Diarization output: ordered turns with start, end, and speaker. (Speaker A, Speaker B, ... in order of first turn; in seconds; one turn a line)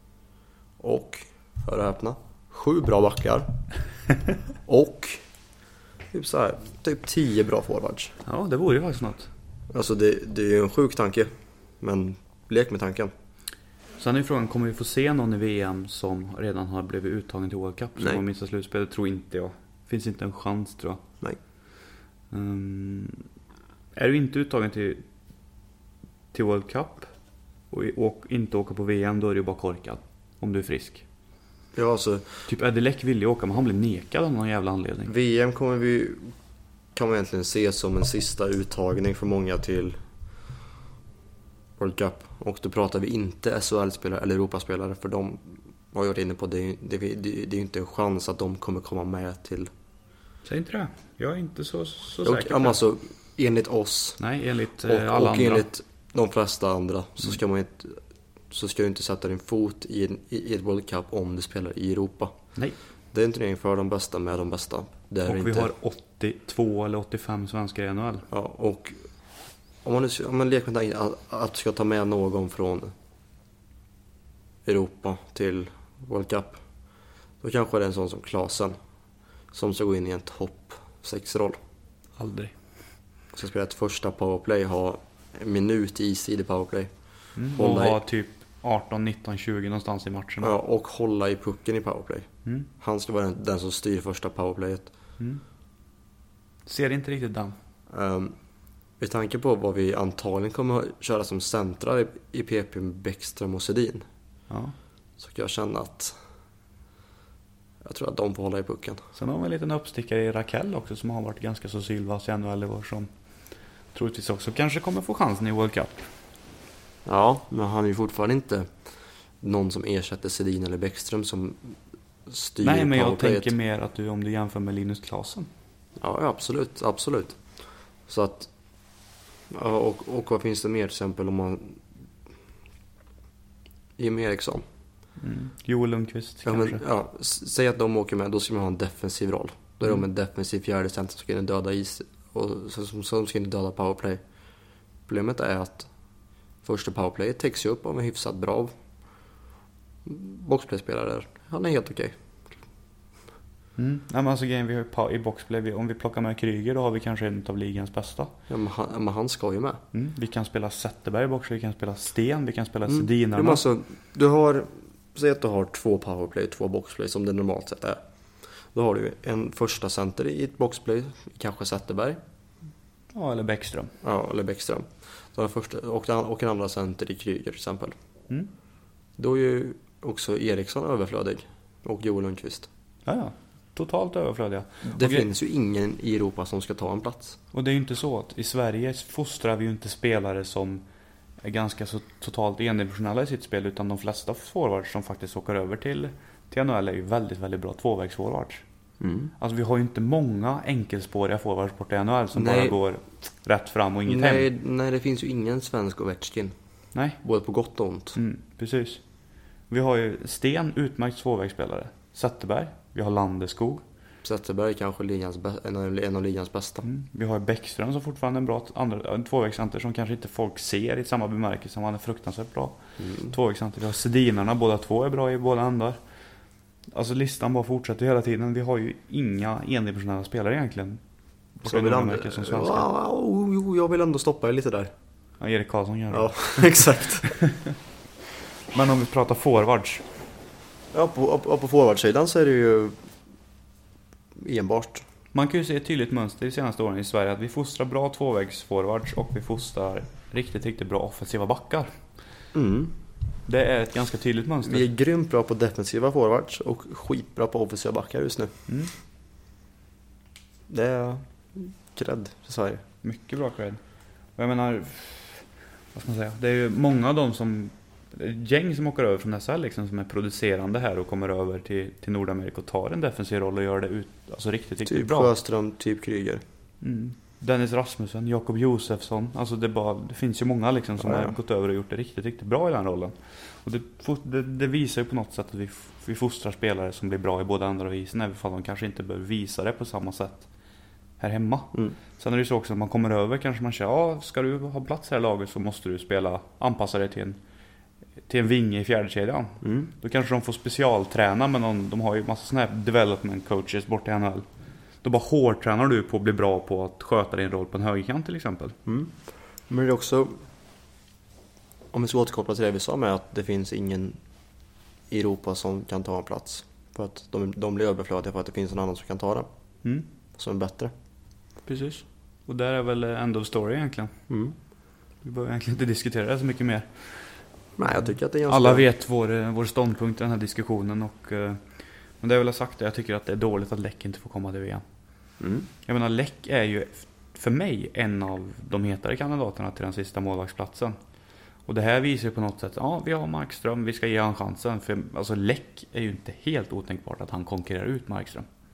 Speaker A: 0.8-3.5
Speaker A: 4.7-5.2
Speaker A: 6.1-8.1
Speaker B: 8.2-9.3
Speaker A: 9.7-11.3
Speaker A: 11.8-13.1
Speaker B: 14.0-21.0
Speaker B: 22.3-23.2
Speaker B: 23.9-25.0
Speaker B: 26.3-27.1
Speaker B: 27.7-31.0
Speaker A: 31.7-32.4
Speaker B: 32.5-35.1
Speaker A: 35.1-36.3
Speaker A: 36.9-40.0
Speaker A: 41.8-49.7
Speaker B: 50.4-52.8
Speaker A: 52.2-54.2
Speaker B: 54.2-55.6
Speaker A: 54.9-58.0
Speaker A: 58.5-62.3
Speaker A: 63.1-65.7
Speaker B: 65.2-68.3
Speaker A: 68.3-69.0
Speaker A: 69.8-72.9
Speaker A: 74.7-76.6
Speaker A: 77.4-78.8
Speaker A: 79.5-81.6
Speaker B: 82.2-82.5
Speaker A: 83.3-86.9
Speaker B: 87.4-90.5
Speaker A: 87.5-88.0
Speaker A: 90.4-92.3
Speaker A: 92.8-94.9
Speaker B: 96.7-97.6
Speaker A: 97.9-98.3
Speaker A: 99.0-104.0
Speaker B: 104.5-104.7
Speaker A: 105.2-106.1
Speaker A: 107.8-109.0
Speaker B: 109.1-113.1
Speaker B: 113.9-116.1
Speaker A: 117.0-118.7
Speaker A: 119.4-123.5
Speaker B: 122.6-125.5
Speaker A: 126.0-127.4
Speaker A: 128.1-128.5
Speaker A: 129.5-131.8
Speaker A: 134.0-134.6
Speaker B: 135.2-136.8
Speaker A: 136.4-144.2
Speaker A: 145.1-145.9
Speaker A: 146.6-148.7
Speaker A: 150.0-152.2
Speaker B: 153.8-158.3
Speaker A: 158.5-159.8
Speaker B: 159.9-163.6
Speaker A: 162.9-168.0
Speaker A: 168.7-172.2
Speaker B: 173.1-173.9
Speaker A: 174.0-177.9
Speaker A: 179.2-182.7
Speaker B: 183.1-185.3
Speaker A: 184.8-187.4
Speaker B: 187.5-190.8
Speaker B: 191.4-198.6
Speaker A: 199.0-199.3
Speaker B: 199.4-204.5
Speaker A: 202.3-202.8
Speaker A: 204.1-206.5
Speaker B: 206.9-207.2
Speaker A: 207.2-208.2
Speaker B: 208.1-209.0
Speaker B: 209.7-213.8
Speaker A: 214.2-216.8
Speaker B: 216.8-226.0
Speaker A: 223.0-223.3
Speaker B: 226.9-231.0
Speaker B: 231.6-232.9
Speaker A: 231.6-234.9
Speaker B: 235.4-237.8
Speaker A: 236.1-237.3
Speaker B: 238.7-240.0
Speaker A: 240.9-243.0
Speaker A: 244.4-245.0
Speaker B: 245.3-251.9
Speaker A: 252.5-252.9
Speaker B: 253.5-254.8
Speaker A: 254.6-258.5
Speaker B: 258.7-258.9
Speaker A: 260.7-262.8
Speaker B: 263.0-263.8
Speaker B: 264.4-275.3
Speaker A: 274.8-276.4
Speaker B: 276.8-290.5
Speaker A: 281.0-281.3
Speaker B: 291.2-297.4
Speaker B: 298.3-304.4
Speaker A: 299.6-299.9
Speaker B: 305.0-308.8
Speaker A: 308.9-309.1
Speaker A: 309.7-310.4
Speaker A: 311.9-314.2
Speaker A: 315.1-319.5
Speaker A: 320.3-320.9
Speaker B: 321.6-324.1
Speaker A: 324.3-324.5
Speaker B: 325.2-326.9
Speaker A: 327.8-328.9
Speaker B: 328.4-331.6
Speaker B: 332.2-334.8
Speaker A: 335.4-335.7
Speaker B: 335.9-340.9
Speaker B: 341.7-348.4